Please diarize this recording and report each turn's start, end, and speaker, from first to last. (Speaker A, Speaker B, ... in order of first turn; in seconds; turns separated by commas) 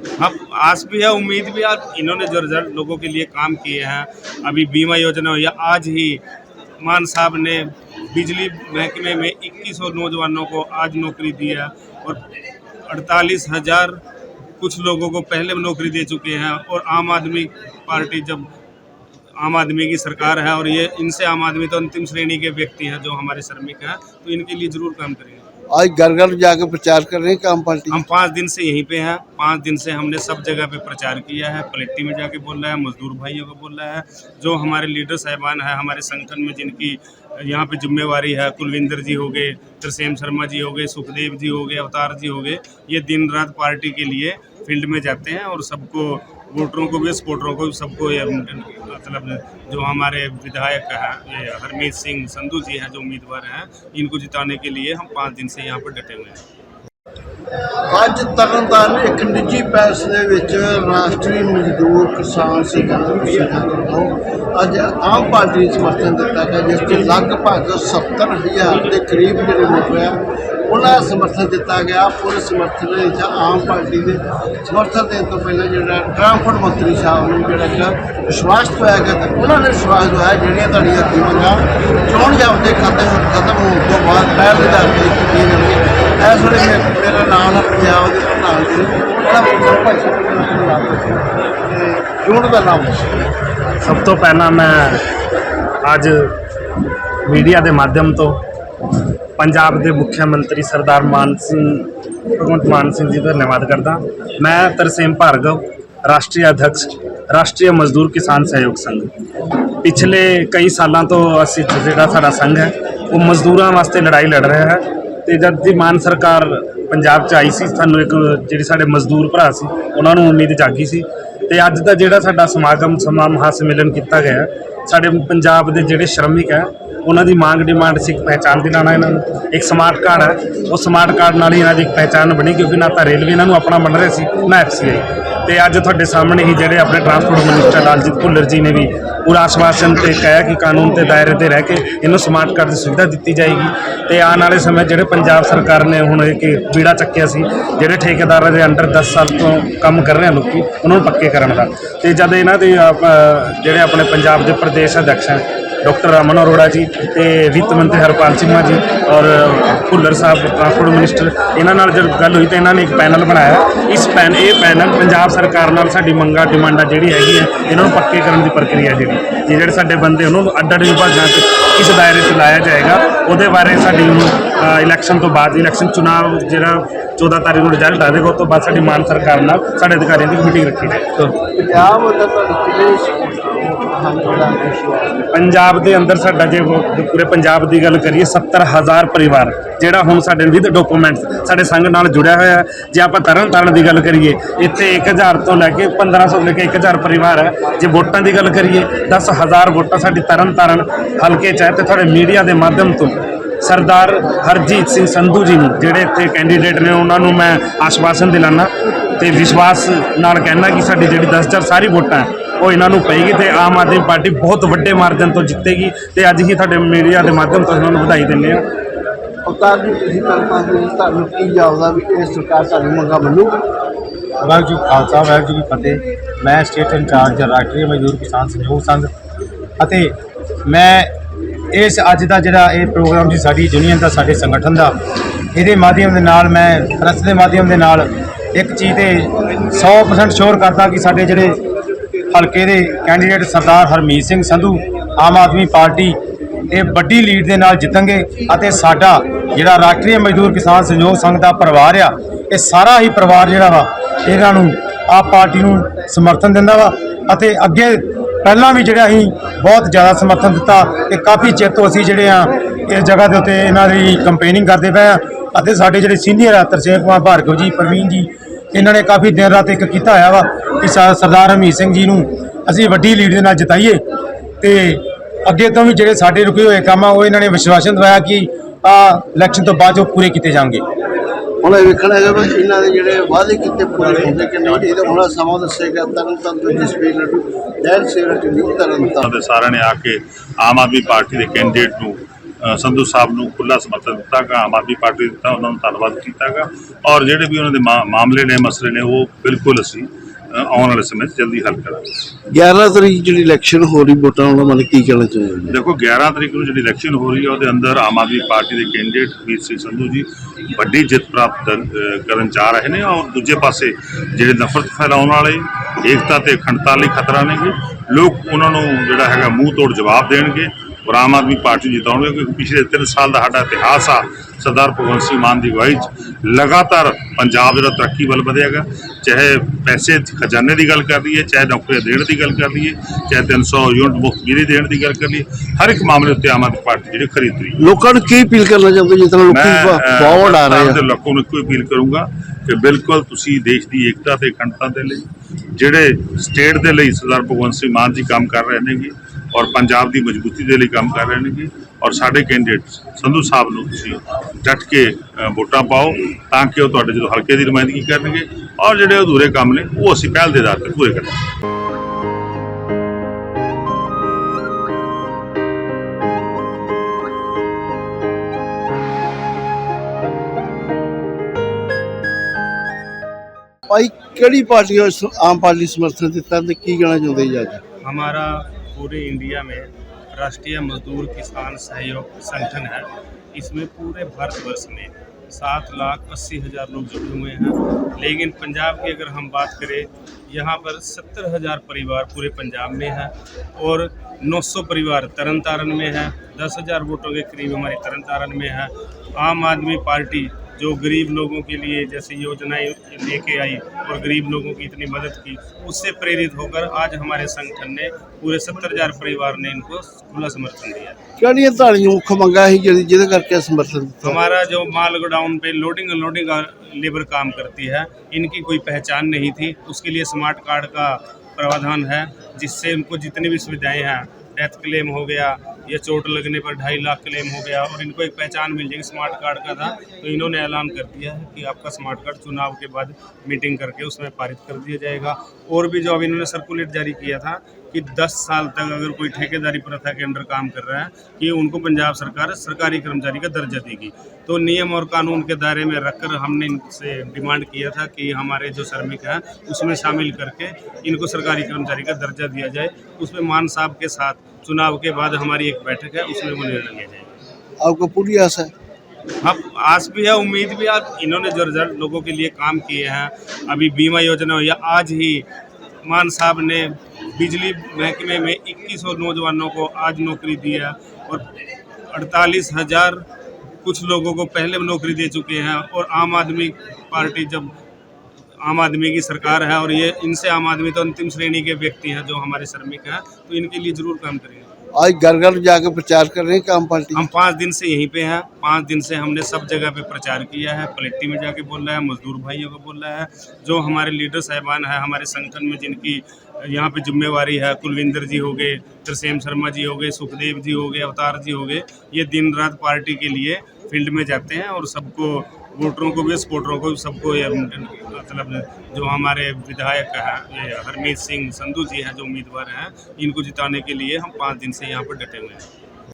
Speaker A: 0.2-6.2, Speaker A: 6.8-12.2, Speaker A: 12.9-14.0, Speaker A: 14.6-18.5, Speaker A: 19.4-25.4, Speaker B: 25.7-28.0, Speaker A: 28.1-56.5, Speaker B: 57.9-93.3, Speaker C: 93.8-95.0, Speaker C: 95.8-96.3, Speaker C: 97.3-98.4, Speaker C: 99.4-109.1, Speaker C: 109.8-181.3, Speaker B: 181.4-185.3, Speaker C: 185.3-218.6, Speaker B: 219.4-223.7, Speaker D: 224.4-229.1, Speaker D: 229.8-230.1, Speaker D: 230.7-231.1, Speaker D: 231.7-234.9, Speaker D: 235.5-241.6, Speaker D: 242.3-246.2, Speaker D: 246.7-274.0, Speaker D: 274.6-280.8, Speaker B: 281.6-289.3, Speaker E: 289.2-302.1, Speaker B: 302.5-305.8, Speaker E: 305.7-337.8, Speaker B: 337.8-341.0, Speaker E: 339.5-361.4, Speaker B: 373.9-377.8, Speaker A: 378.0-411.2, Speaker B: 411.4-414.4, Speaker A: 414.5-457.3, Speaker B: 457.8-458.7, Speaker A: 459.4-465.4, Speaker A: 466.1-471.4, Speaker A: 472.1-473.2, Speaker A: 473.8-477.7, Speaker A: 478.6-484.7, Speaker B: 484.9-487.3, Speaker A: 487.3-515.7